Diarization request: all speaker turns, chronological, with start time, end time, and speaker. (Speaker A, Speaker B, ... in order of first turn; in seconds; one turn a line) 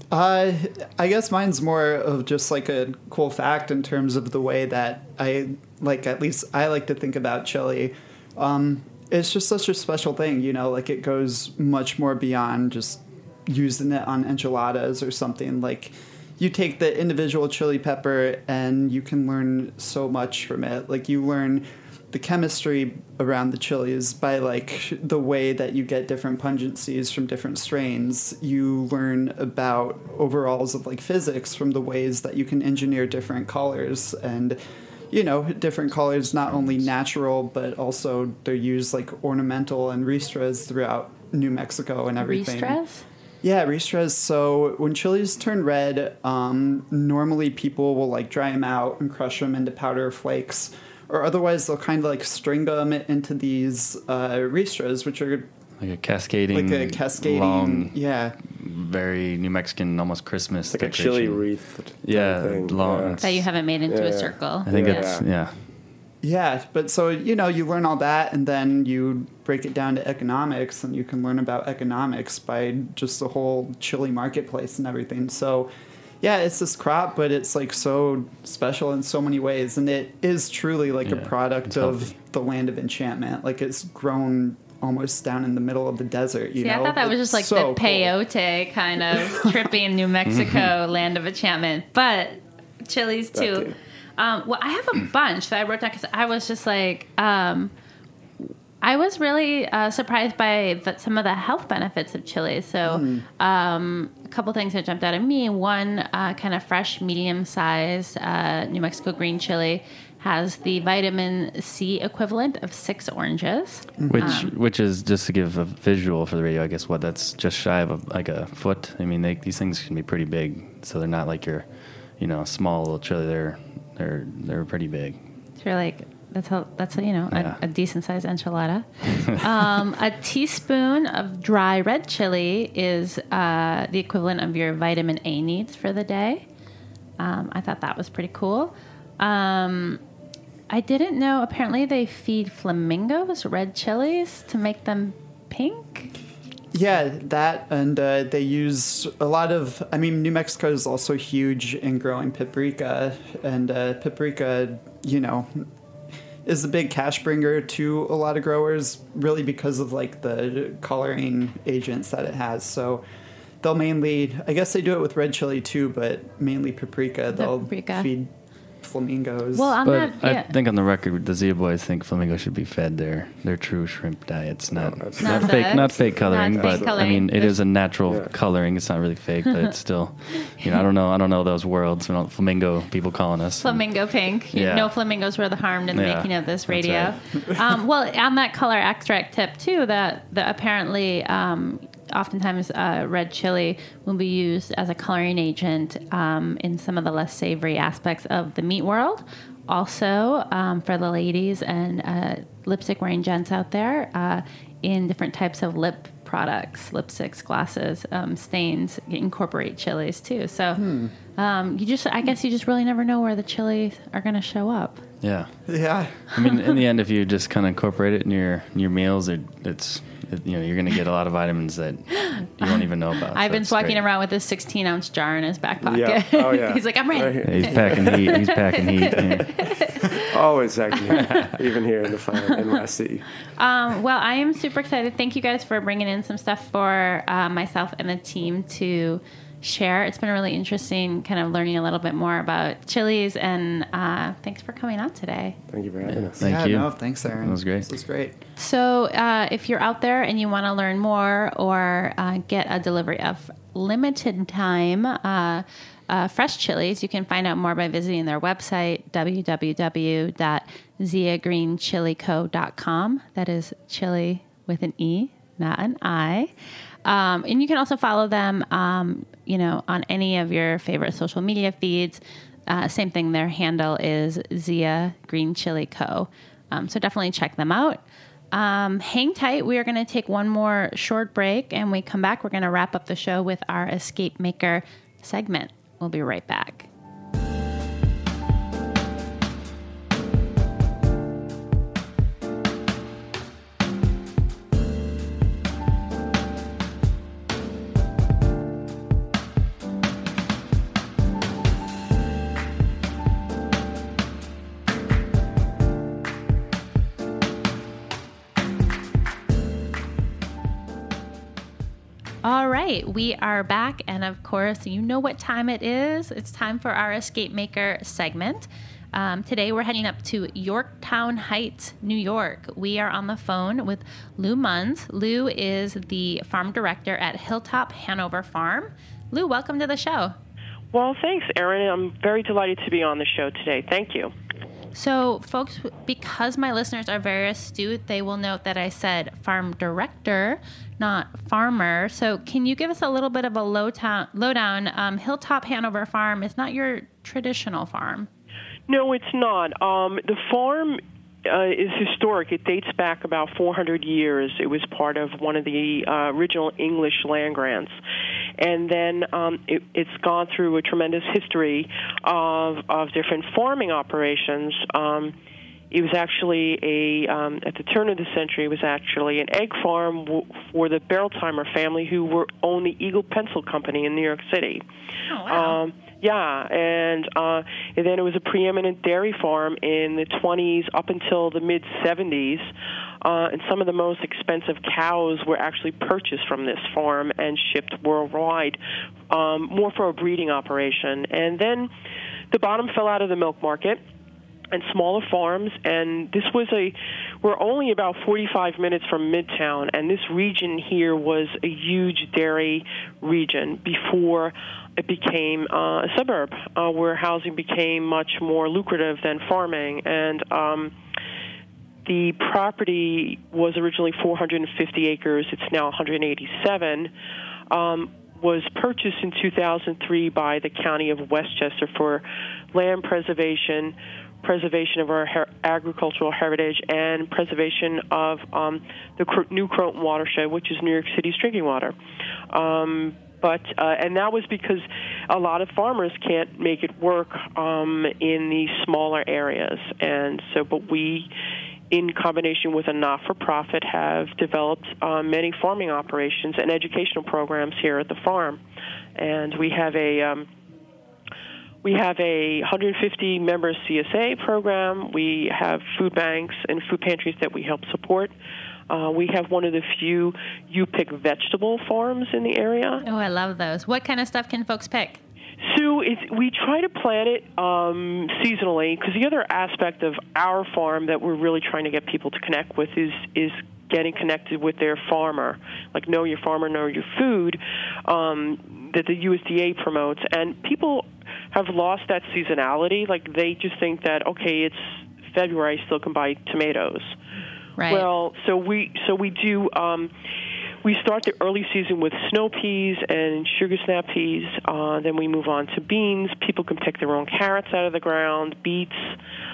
Speaker A: 0.1-34.6
Speaker A: 35.1-42.8
Speaker B: 42.2-43.0
Speaker A: 43.4-55.5
Speaker C: 55.8-61.5
Speaker A: 56.5-58.4
Speaker D: 60.7-63.2
Speaker C: 62.0-63.5
Speaker B: 63.2-65.1
Speaker D: 63.9-65.2
Speaker C: 64.6-65.6
Speaker A: 66.2-88.1
Speaker C: 81.0-82.1
Speaker B: 86.6-97.7
Speaker A: 89.1-89.7
Speaker C: 90.2-90.7
Speaker D: 93.3-93.8
Speaker B: 98.8-114.5
Speaker A: 102.8-103.2
Speaker A: 114.0-114.4
Speaker C: 114.1-121.7
Speaker C: 122.2-125.2
Speaker B: 125.6-136.4
Speaker C: 127.3-127.6
Speaker B: 137.2-140.0
Speaker B: 140.7-146.1
Speaker A: 146.7-155.7
Speaker A: 156.4-163.0
Speaker A: 163.6-169.8
Speaker B: 167.3-168.1
Speaker B: 169.5-170.5
Speaker C: 169.8-184.9
Speaker D: 174.7-177.2
Speaker B: 175.2-177.6
Speaker D: 178.1-178.3
Speaker B: 183.6-210.8
Speaker C: 185.9-187.2
Speaker A: 210.7-211.1
Speaker B: 211.3-215.0
Speaker C: 215.2-215.5
Speaker A: 215.7-216.1
Speaker C: 216.3-224.0
Speaker B: 222.2-222.8
Speaker B: 223.3-230.2
Speaker D: 225.8-228.3
Speaker C: 227.4-229.6
Speaker D: 230.3-233.2
Speaker B: 230.9-231.2
Speaker C: 231.2-231.5
Speaker B: 232.4-232.6
Speaker B: 233.6-245.6
Speaker D: 245.7-246.3
Speaker C: 246.1-247.9
Speaker A: 246.4-248.4
Speaker B: 248.6-266.5
Speaker B: 267.0-286.9
Speaker B: 312.4-330.4
Speaker E: 330.9-334.3
Speaker B: 334.9-348.3
Speaker E: 348.9-357.9
Speaker E: 358.6-365.3
Speaker E: 365.9-374.8
Speaker B: 375.3-375.8
Speaker E: 375.4-382.7
Speaker E: 383.2-391.9
Speaker E: 392.5-394.0
Speaker E: 394.7-410.9
Speaker E: 412.1-417.1
Speaker E: 417.7-431.9
Speaker E: 432.5-441.3
Speaker E: 441.9-448.6
Speaker E: 449.1-450.5
Speaker E: 451.8-458.3
Speaker E: 458.9-463.0
Speaker B: 463.0-465.2
Speaker E: 465.6-487.1
Speaker B: 487.8-488.1
Speaker E: 487.9-490.1
Speaker E: 490.8-499.1